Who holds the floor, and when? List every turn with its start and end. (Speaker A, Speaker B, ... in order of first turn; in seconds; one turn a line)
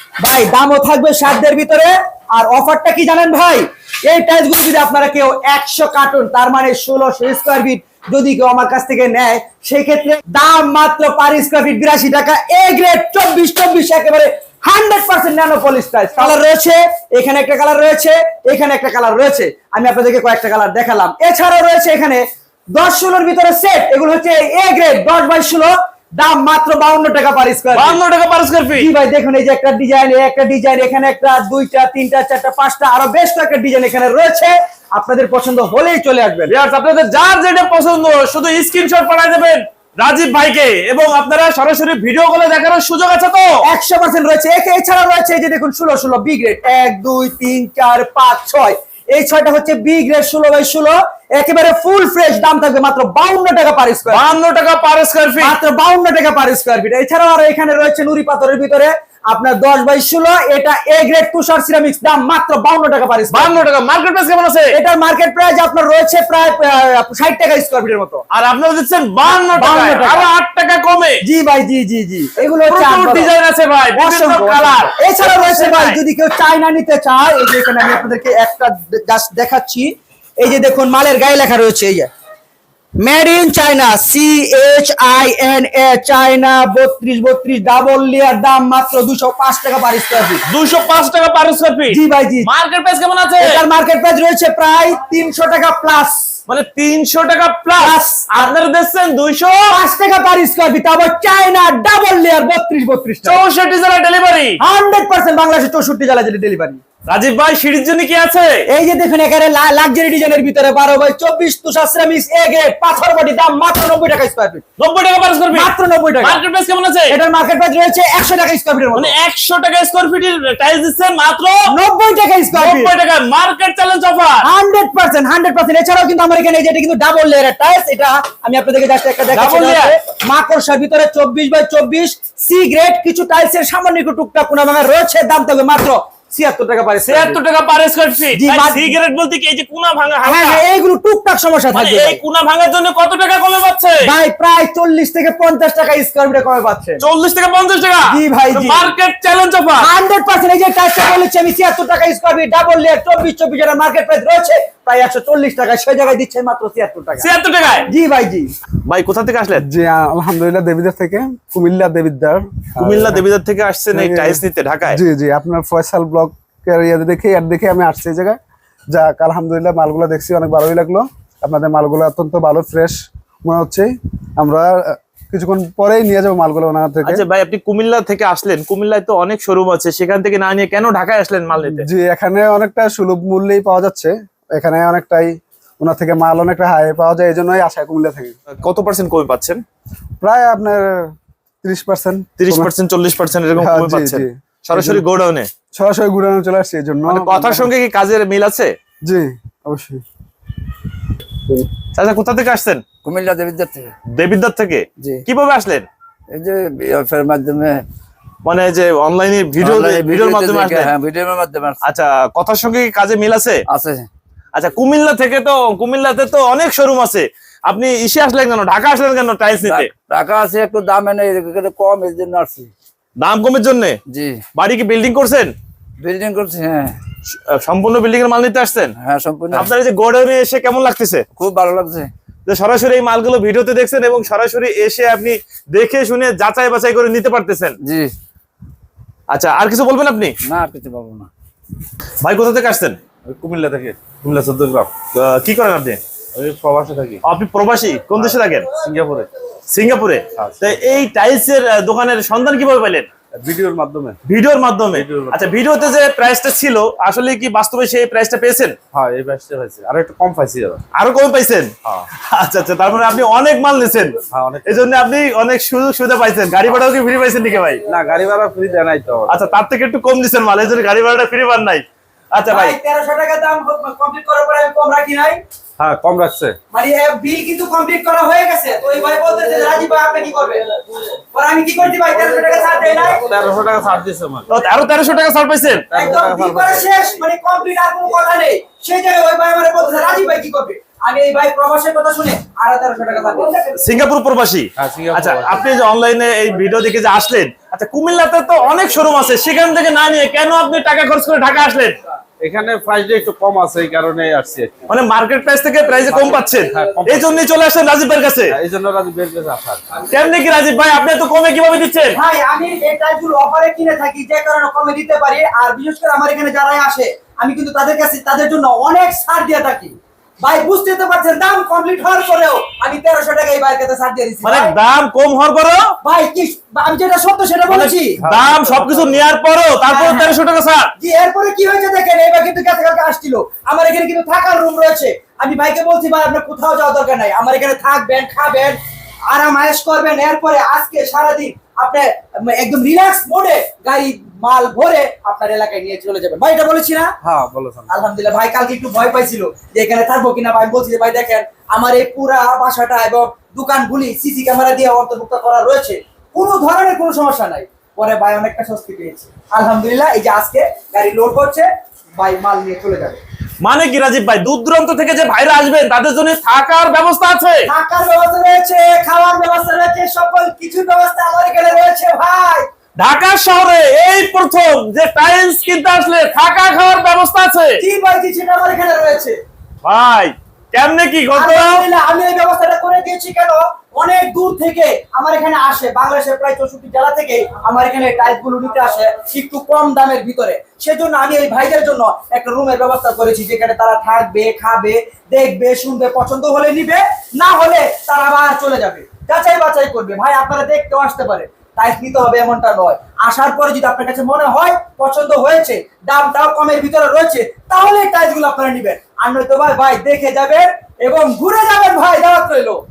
Speaker A: 0.2-28.0
Speaker B: 27.7-28.9
Speaker A: 28.8-36.5
Speaker B: 36.5-43.6
Speaker A: 43.6-54.3
Speaker B: 54.1-55.5
Speaker A: 55.4-63.6
Speaker B: 63.3-64.7
Speaker A: 64.7-68.2
Speaker B: 68.3-71.2
Speaker A: 69.2-70.3
Speaker A: 71.2-73.3
Speaker B: 72.7-76.0
Speaker A: 73.9-82.1
Speaker A: 83.0-90.4
Speaker B: 90.5-93.6
Speaker A: 91.9-92.5
Speaker A: 93.4-96.3
Speaker B: 96.5-99.7
Speaker A: 97.8-98.5
Speaker A: 99.7-103.4
Speaker B: 103.2-104.6
Speaker A: 104.6-106.8
Speaker B: 107.1-108.6
Speaker A: 108.7-114.6
Speaker B: 114.8-117.2
Speaker A: 115.5-116.4
Speaker A: 117.1-119.1
Speaker B: 119.0-121.7
Speaker A: 121.7-122.9
Speaker B: 122.5-124.5
Speaker A: 124.4-137.4
Speaker B: 129.3-129.9
Speaker B: 137.1-140.6
Speaker A: 138.3-138.9
Speaker A: 140.2-142.2
Speaker B: 141.7-144.1
Speaker A: 144.0-147.0
Speaker B: 147.0-149.9
Speaker A: 148.1-148.9
Speaker A: 149.8-157.3
Speaker B: 157.2-157.9
Speaker A: 157.9-158.5
Speaker B: 158.9-159.6
Speaker C: 159.6-163.2
Speaker B: 162.8-165.0
Speaker C: 163.9-168.4
Speaker C: 168.9-177.2
Speaker B: 177.0-181.9
Speaker C: 181.6-188.3
Speaker B: 188.5-189.6
Speaker C: 190.2-192.7
Speaker B: 192.4-195.5
Speaker C: 193.6-195.0
Speaker C: 195.7-197.7
Speaker B: 197.1-198.7
Speaker C: 199.0-200.0
Speaker B: 201.9-202.8
Speaker D: 203.0-203.9
Speaker B: 204.1-205.9
Speaker D: 206.3-207.8
Speaker B: 208.4-210.9
Speaker D: 209.6-211.8
Speaker B: 211.8-213.6
Speaker D: 213.7-214.1
Speaker B: 214.5-219.9
Speaker D: 219.6-222.7
Speaker B: 223.2-224.0
Speaker D: 224.1-224.4
Speaker B: 224.5-225.5
Speaker D: 226.0-226.9
Speaker B: 227.3-228.9
Speaker D: 229.0-229.7
Speaker B: 229.5-231.2
Speaker D: 231.4-232.1
Speaker B: 232.5-237.8
Speaker D: 237.8-238.1
Speaker B: 239.3-240.3
Speaker D: 240.4-241.3
Speaker B: 242.2-243.0
Speaker E: 243.2-244.9
Speaker B: 245.1-246.0
Speaker E: 246.3-247.2
Speaker B: 247.2-248.7
Speaker E: 248.2-249.3
Speaker B: 249.7-253.1
Speaker E: 250.4-250.8
Speaker E: 253.4-254.2
Speaker B: 254.2-258.8
Speaker E: 254.9-255.5
Speaker E: 258.9-260.8
Speaker B: 260.9-267.8
Speaker E: 264.3-264.9
Speaker E: 267.9-269.4
Speaker B: 269.3-272.7
Speaker A: 272.5-275.4
Speaker E: 275.8-276.6
Speaker A: 276.7-280.7
Speaker A: 281.3-283.2
Speaker E: 283.2-284.5
Speaker B: 284.5-285.9
Speaker E: 285.9-286.9
Speaker A: 285.9-293.8
Speaker B: 293.7-302.0
Speaker E: 294.8-295.6
Speaker E: 302.4-304.9
Speaker B: 304.9-308.5
Speaker E: 306.1-307.5
Speaker E: 308.5-309.8
Speaker B: 310.1-312.2
Speaker A: 312.1-324.7
Speaker B: 324.4-325.9
Speaker A: 326.0-328.2
Speaker B: 327.7-330.9
Speaker E: 328.2-329.2
Speaker A: 329.9-330.3
Speaker A: 331.0-338.8
Speaker A: 339.3-347.1
Speaker E: 347.2-347.9
Speaker A: 347.9-363.2
Speaker B: 363.6-367.7
Speaker A: 367.6-372.7
Speaker B: 373.0-377.8
Speaker A: 377.8-379.4
Speaker B: 379.8-381.9
Speaker A: 381.3-412.8